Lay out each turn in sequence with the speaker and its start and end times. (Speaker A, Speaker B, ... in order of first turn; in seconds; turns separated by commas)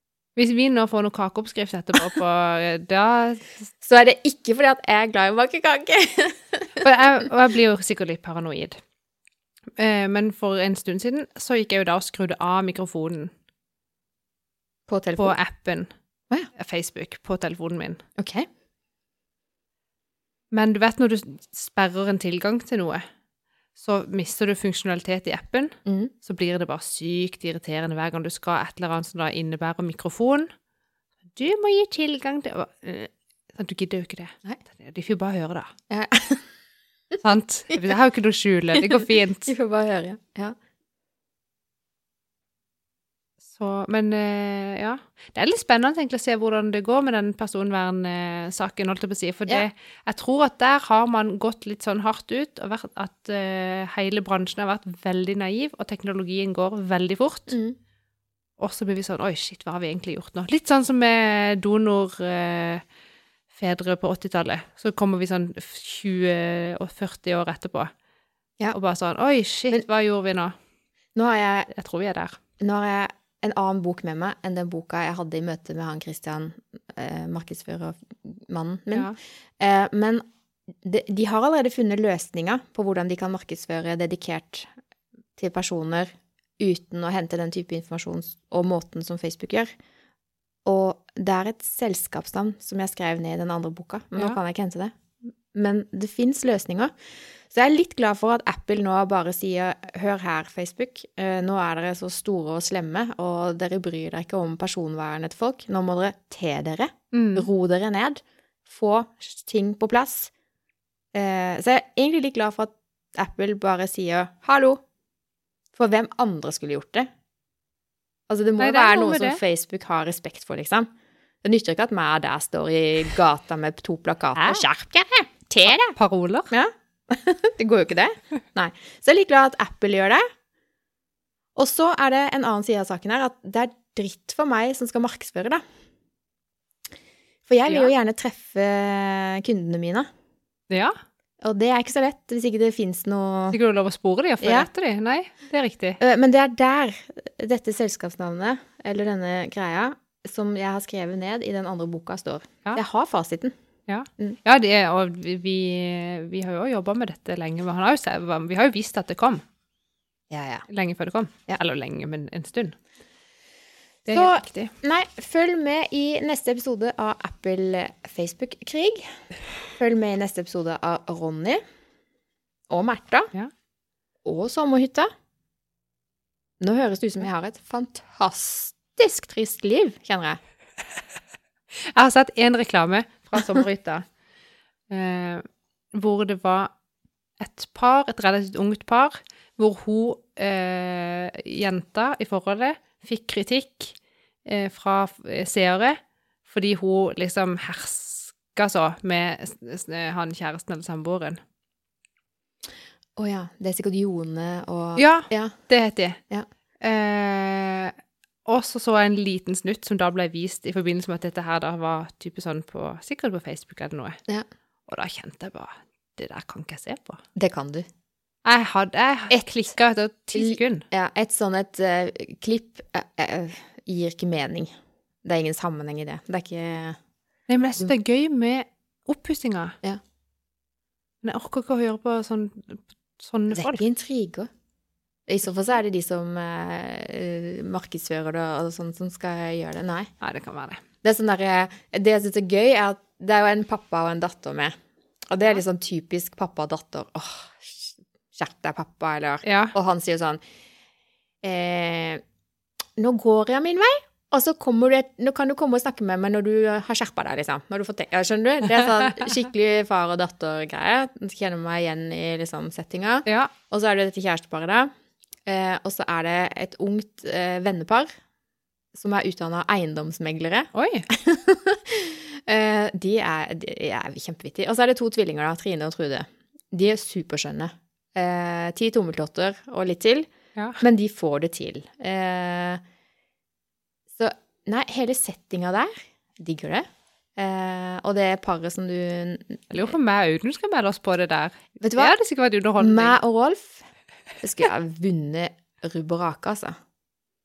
Speaker A: 0.4-3.6, Speaker B: 3.8-6.8, Speaker A: 6.8-8.8, Speaker A: 9.8-13.3, Speaker B: 14.9-15.4, Speaker A: 15.2-15.9, Speaker A: 16.6-18.0, Speaker B: 18.2-18.5, Speaker A: 20.5-23.0, Speaker A: 23.8-30.5, Speaker B: 25.9-26.1, Speaker A: 31.3-35.7, Speaker B: 35.9-36.4, Speaker A: 37.2-39.5, Speaker B: 38.8-40.5, Speaker A: 43.5-57.5, Speaker B: 57.5-57.8, Speaker A: 58.6-62.8, Speaker A: 63.5-67.9, Speaker A: 68.7-70.5, Speaker B: 71.2-71.7, Speaker A: 71.7-72.4, Speaker B: 72.6-80.2, Speaker B: 80.8-84.7, Speaker B: 85.4-89.7, Speaker B: 90.7-94.9, Speaker B: 95.5-96.9, Speaker B: 97.5-110.3, Speaker A: 107.1-107.5, Speaker B: 111.1-114.8, Speaker B: 115.8-117.1, Speaker B: 118.3-120.9, Speaker A: 118.6-119.4, Speaker B: 121.4-126.0, Speaker A: 124.4-124.7, Speaker A: 126.0-126.5, Speaker B: 126.5-130.2, Speaker B: 131.6-135.6, Speaker B: 137.5-140.1, Speaker A: 137.7-137.9, Speaker A: 140.7-140.9, Speaker B: 141.4-143.6, Speaker A: 143.5-146.0, Speaker B: 144.4-144.7, Speaker B: 146.0-153.5, Speaker A: 153.9-159.4, Speaker B: 160.3-160.7, Speaker A: 160.7-162.8, Speaker A: 164.1-164.7, Speaker B: 164.1-169.1, Speaker B: 169.8-171.6, Speaker B: 172.7-173.3, Speaker B: 174.2-175.1, Speaker B: 176.6-180.4, Speaker A: 181.7-184.1, Speaker A: 184.9-186.7, Speaker A: 187.4-201.4, Speaker B: 203.2-205.6, Speaker A: 205.0-206.2, Speaker A: 206.8-207.9, Speaker A: 208.5-214.2, Speaker A: 214.9-217.2, Speaker B: 217.4-217.9, Speaker A: 218.4-220.8, Speaker B: 220.3-224.7, Speaker B: 225.2-227.0, Speaker A: 227.5-229.8, Speaker A: 231.2-233.8, Speaker B: 233.5-234.5, Speaker B: 235.3-240.1, Speaker A: 240.2-240.8, Speaker B: 241.0-244.8, Speaker B: 245.3-250.4, Speaker A: 249.4-249.7, Speaker B: 251.4-252.2, Speaker B: 253.0-264.9, Speaker A: 263.3-263.5, Speaker B: 265.5-268.1, Speaker B: 268.9-282.8, Speaker A: 270.7-271.1, Speaker B: 284.2-286.9, Speaker B: 287.4-289.9, Speaker A: 289.7-293.2, Speaker B: 291.8-292.1, Speaker B: 292.8-293.9, Speaker B: 294.4-296.8